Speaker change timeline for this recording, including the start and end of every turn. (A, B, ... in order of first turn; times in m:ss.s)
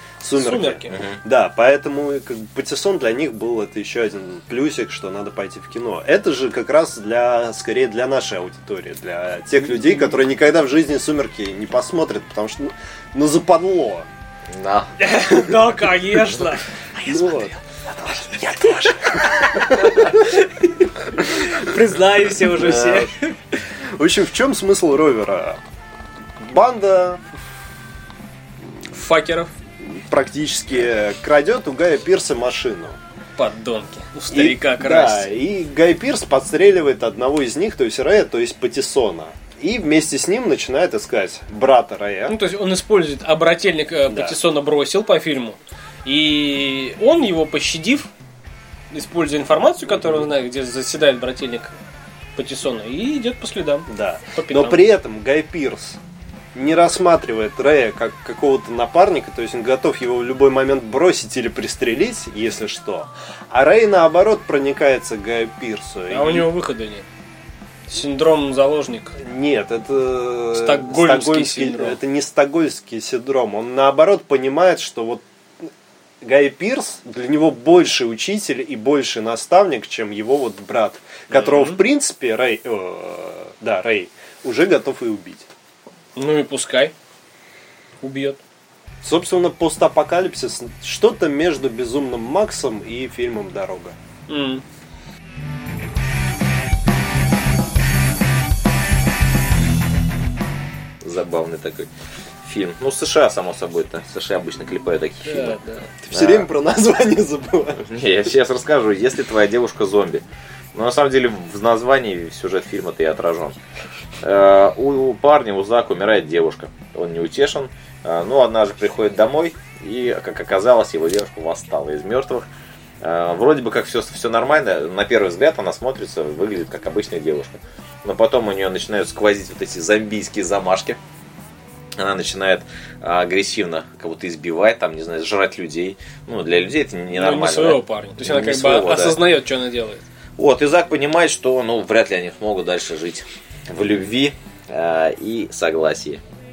0:00.2-0:14.1 A
0:00.4-0:01.0 B
0:00.9-0:01.2 C
0:09.7-0:10.2 B
0:14.5-0:14.9 C
0:15.0-0:17.4 B
0:17.0-0:20.3 A
0:18.5-0:23.4 B
0:21.2-0:21.7 A
0:22.6-0:23.1 C
0:22.7-0:23.0 A
0:24.0-0:25.6 A
0:26.4-0:27.2 A
0:28.9-0:29.5 B
0:29.8-0:33.0 A
0:33.4-0:35.3 B
0:34.3-0:42.4 A
0:42.3-0:48.1 B
0:44.1-0:44.4 A
0:48.9-0:51.7 B
0:49.9-0:50.2 A
0:52.4-0:54.9 B
0:53.9-0:56.0 A
0:56.6-1:06.5 A
1:06.1-1:07.0 B
1:07.9-1:09.2 B
1:09.2-1:15.7 A
1:10.5-1:12.0 B
1:16.2-1:25.5 A
1:21.3-1:21.8 B
1:26.2-1:26.9 B
1:28.0-1:28.4 B
1:29.0-1:34.0 A
1:34.3-1:34.6 B
1:41.0-1:41.9 C
1:42.4-1:45.6 C
1:45.2-1:45.9 B
1:46.0-1:47.9 A
1:46.1-1:46.5 C
1:47.8-1:53.6 C
1:54.2-2:02.5 C
2:03.0-2:11.0 C
2:12.0-2:19.2 C
2:17.1-2:20.0 B
2:20.4-2:26.2 C